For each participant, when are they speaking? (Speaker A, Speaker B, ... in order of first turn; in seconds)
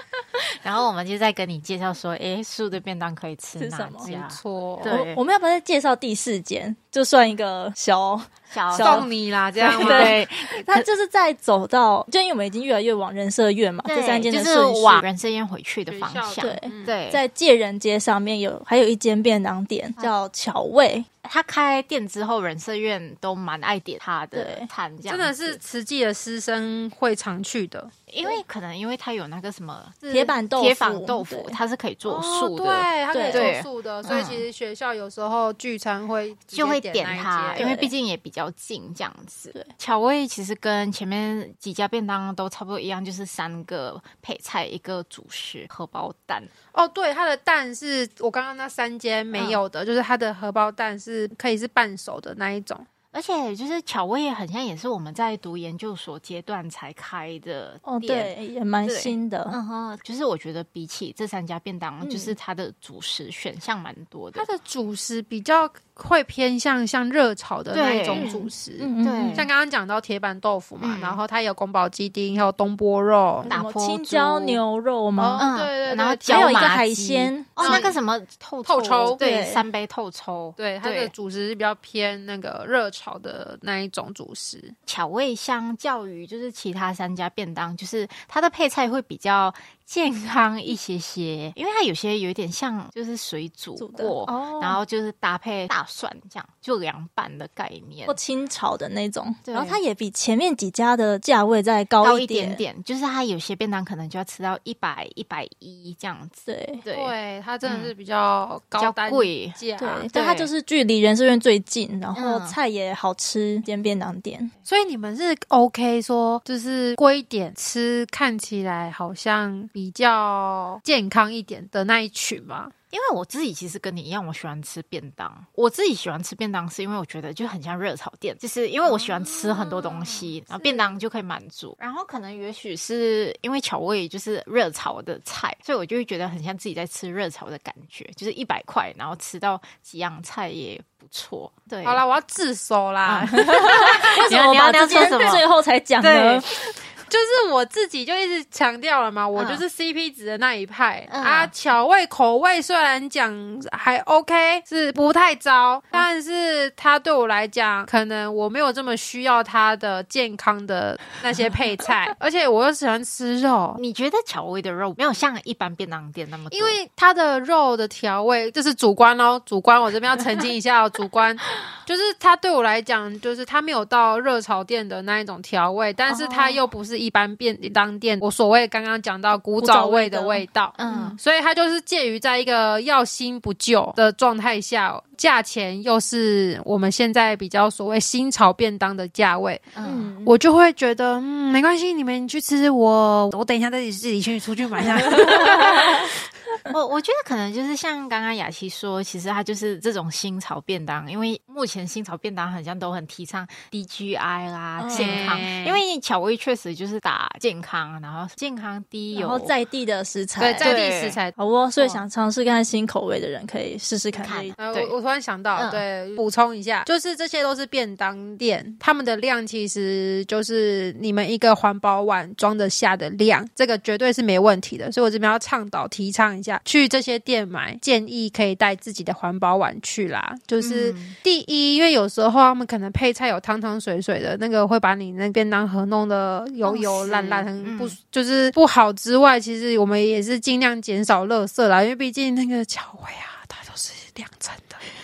Speaker A: 0.6-5.2, 8.5-9.1, 9.6-10.9, 13.8-17.2, 21.2-25.6, 28.1-34.5, 36.5-46.5, 49.3-49.6, 53.1-64.5, 67.7-68.3, 69.0-69.5, 70.8-71.2, 73.5-74.6, 75.4-81.1, 84.9-98.2, 99.5-99.8, 102.0-107.9, 108.8-110.5, 112.2-112.6, 122.9-142.0, 143.1-145.4, 146.0-146.5, 149.4-149.6, 151.1-151.5, 163.8-166.8, 176.2-176.6, 180.8-181.2, 189.8-190.1, 196.7-209.6, 210.6-211.2, 214.1-214.9, 215.5-215.8, 230.6-231.2, 236.6-238.0
Speaker B: 3.6-4.1, 4.9-9.1, 9.6-15.1, 16.4-21.1, 24.3-24.7, 30.1-31.6, 33.1-33.5, 37.5-37.9, 57.9-59.6, 62.0-62.4, 68.1-69.5, 73.4-75.5, 76.2-77.9, 79.0-79.7, 93.8-94.8, 98.1-102.6, 106.5-106.8, 109.8-114.5, 143.3-146.5, 179.6-181.2, 189.8-190.4, 204.8-205.4, 209.1-210.8, 211.3-214.6
Speaker C: 4.0-5.0, 8.7-10.2, 15.9-16.9, 25.1-28.4, 32.0-37.7, 46.7-52.9, 64.3-73.5, 75.2-76.8, 77.6-78.0, 78.7-79.2, 80.6-84.8, 106.9-110.1, 114.7-122.7, 128.9-131.0, 141.8-144.3, 144.8-145.4, 147.1-163.8, 166.5-189.7, 190.2-196.1, 204.9-205.8, 210.4-212.0, 214.6-244.8